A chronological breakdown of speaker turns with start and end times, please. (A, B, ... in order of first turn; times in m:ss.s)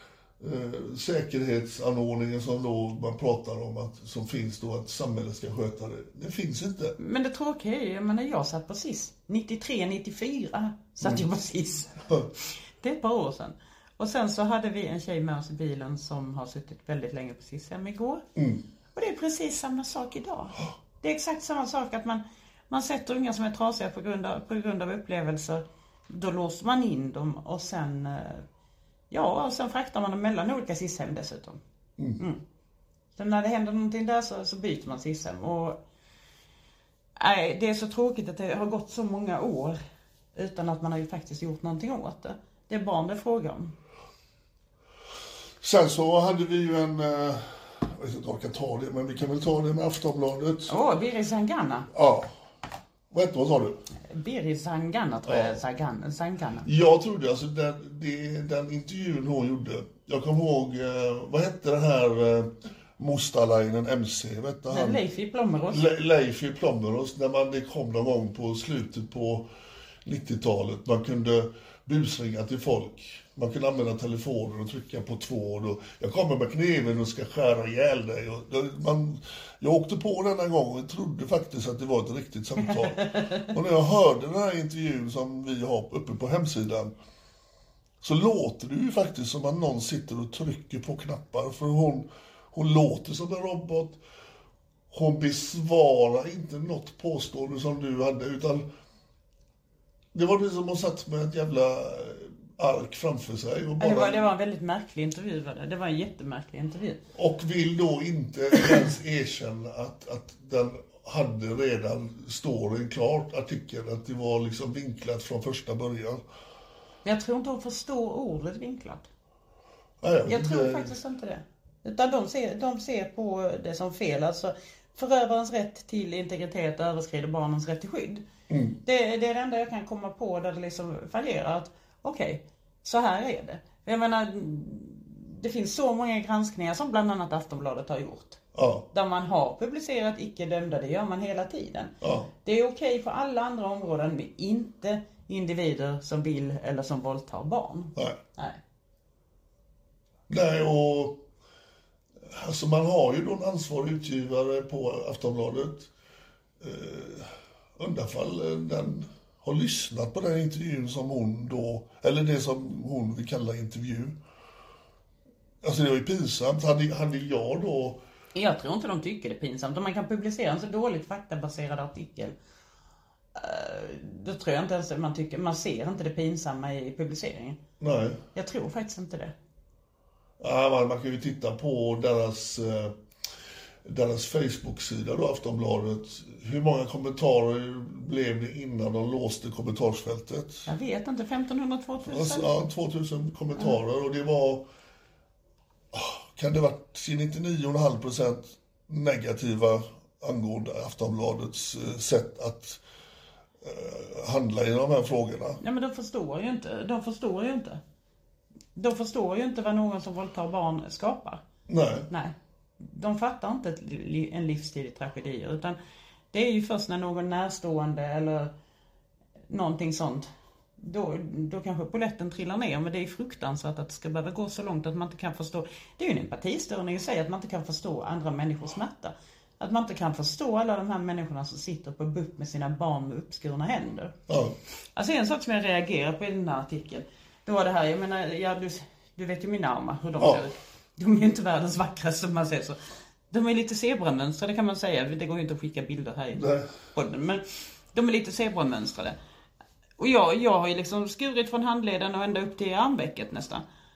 0:00.4-0:07.0 A
0:07.0-0:18.2 B
0:18.4-0:18.6 A
0:18.9-0:28.4 B
0:29.1-0:31.6 B
0:33.2-0:35.8 B
0:37.2-0:39.8 B
0:40.3-0:43.7 B
0:45.6-0:50.7 A
0:50.7-0:51.9 B
0:51.9-0:52.3 A
0:53.1-0:53.8 A
0:54.1-0:56.7 B
0:55.2-0:55.6 A
0:56.6-1:05.0 A
1:04.7-1:05.8 B
1:05.7-1:09.5 A
1:10.0-1:26.9 A
1:23.1-1:23.4 B
1:28.0-1:34.0 A
1:34.9-1:38.6 A
1:40.1-1:44.3 A
1:43.8-1:47.0 B
1:47.1-1:56.2 A
1:57.0-1:59.0 B
2:00.0-2:00.9 A
2:00.3-2:08.2 B
2:08.5-2:08.8 A
2:08.8-2:18.4 B
2:18.5-2:18.9 A
2:18.9-2:21.9 B
2:22.0-2:22.3 A
2:22.4-2:28.6 B
2:30.3-2:31.2 A
2:32.3-2:35.9 A
2:36.6-2:44.2 A
2:45.6-2:48.0 A
2:48.3-2:52.3 B
2:53.3-2:57.6 B
2:57.8-2:58.2 A
2:58.3-2:59.3 B
3:00.4-3:02.9 A
3:03.8-3:10.7 A
3:10.7-3:12.5 B
3:12.0-3:14.7 A
3:15.9-3:22.8 A
3:23.6-3:25.6 A
3:25.6-3:27.8 B
3:28.7-3:31.4 B
3:31.7-3:32.1 A
3:32.1-3:35.8 B
3:36.3-3:38.5 B
3:39.5-3:54.2 B
3:54.3-3:54.6 A
3:55.0-4:02.8 B
4:00.2-4:00.4 A
4:03.3-4:09.2 B
4:06.3-4:06.7 A
4:10.0-4:13.6 B